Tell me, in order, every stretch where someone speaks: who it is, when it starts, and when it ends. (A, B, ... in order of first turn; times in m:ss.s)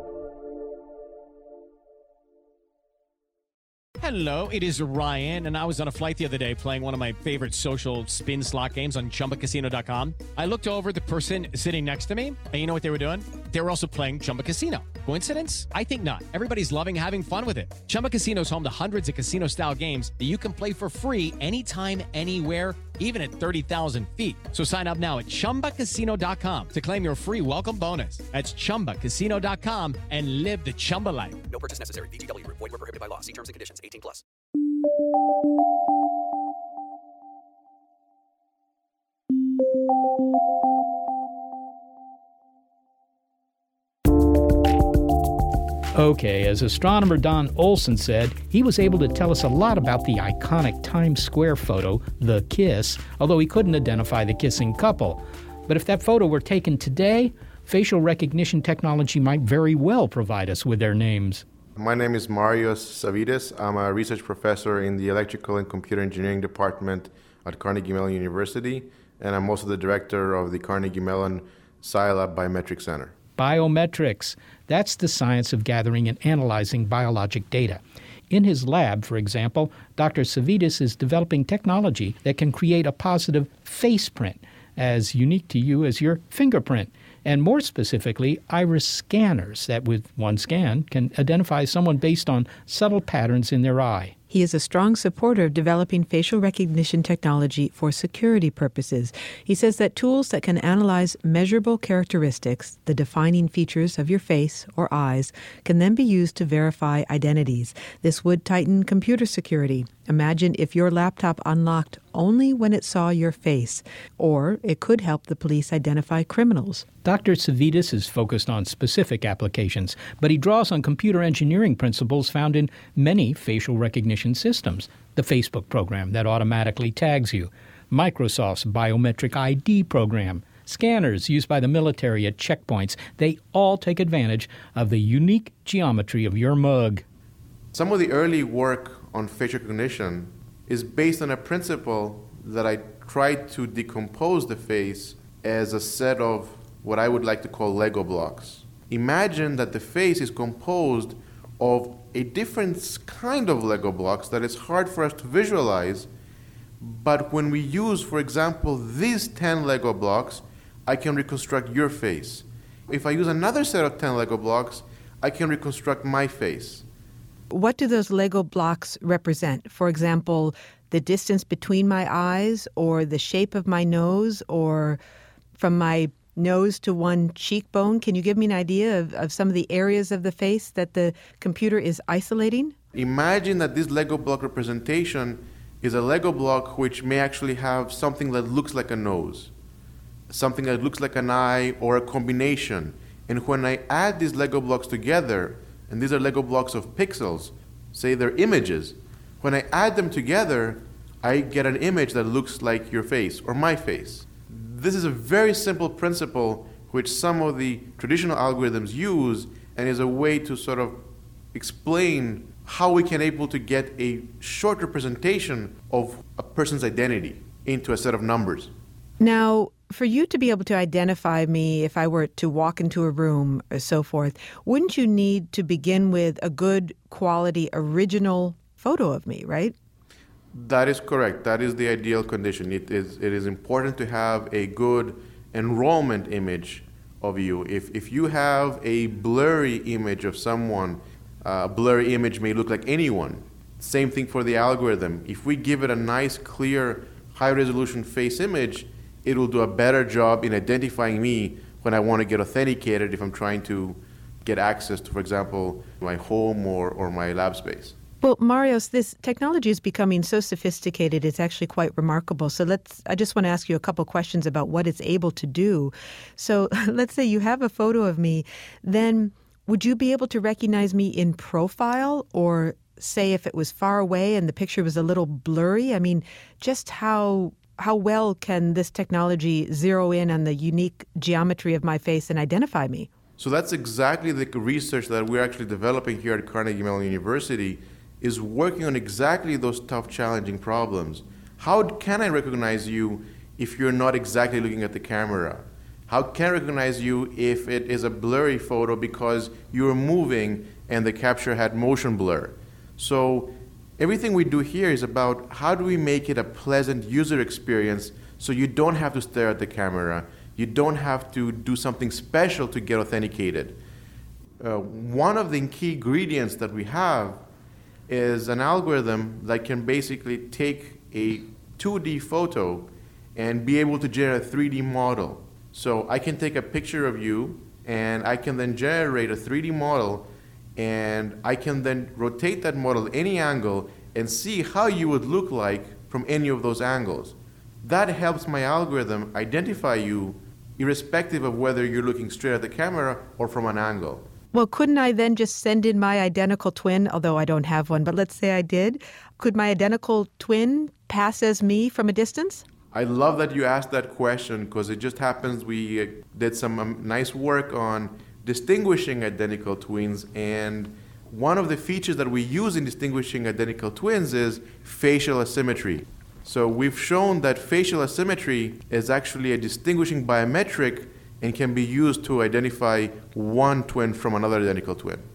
0:04.0-0:31.4 A
0:31.5-0:34.2 B
0:45.9-1:01.4 C
1:01.8-1:13.2 D
1:13.4-1:34.1 C
1:34.3-1:56.9 E
1:57.0-2:17.0 C
2:17.7-2:36.1 D
2:36.8-2:46.9 D
2:47.5-2:55.0 E
2:55.6-3:02.8 E
3:02.9-3:09.5 D
3:10.3-3:38.7 D
3:39.2-3:49.8 E
3:50.5-4:18.0 D
4:18.2-4:43.1 E
4:43.4-5:13.8 D
5:14.6-5:17.4 D
5:18.1-5:44.2 D
5:44.5-5:52.6 E
5:52.9-6:15.2 D